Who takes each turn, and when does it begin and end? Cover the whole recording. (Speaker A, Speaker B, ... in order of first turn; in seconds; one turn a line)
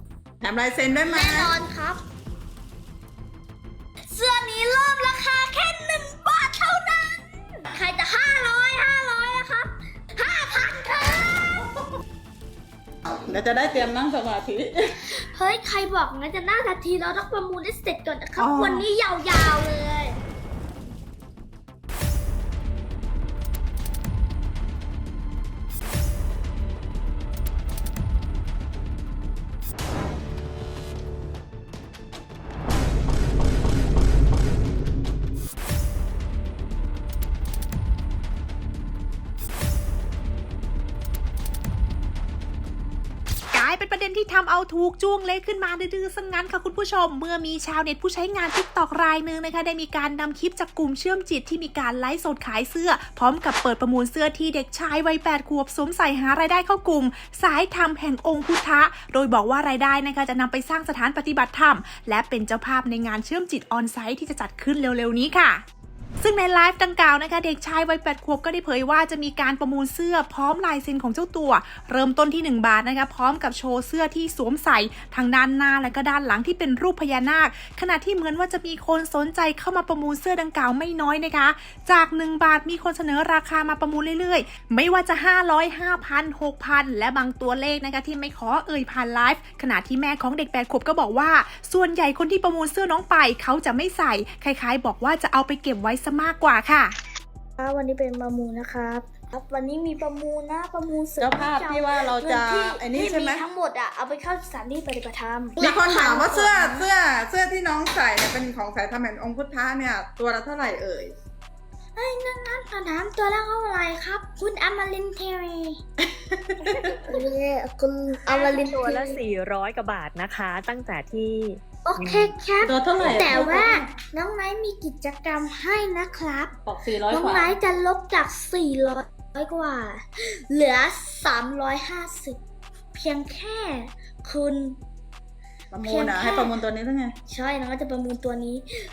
Speaker A: 0.4-1.5
Speaker B: 1.1-2.0
Speaker B: 4.1-11.7
Speaker A: 13.1-14.8
Speaker B: 15.1-20.2
Speaker A: 18.4-18.9
Speaker C: 43.5-65.6
Speaker C: 66.2-96.9
Speaker B: 97.6-106.9
Speaker A: 101.2-103.4
Speaker A: 105.6-111.1
Speaker B: 112.0-115.8
Speaker A: 116.0-117.0
Speaker B: 116.8-119.2
Speaker D: 118.3-122.3
Speaker B: 121.8-126.6
Speaker A: 122.6-123.9
Speaker A: 126.6-127.5
Speaker B: 127.1-132.4
Speaker B: 132.9-134.8
Speaker A: 135.7-137.1
Speaker B: 135.8-136.5
Speaker B: 137.3-138.7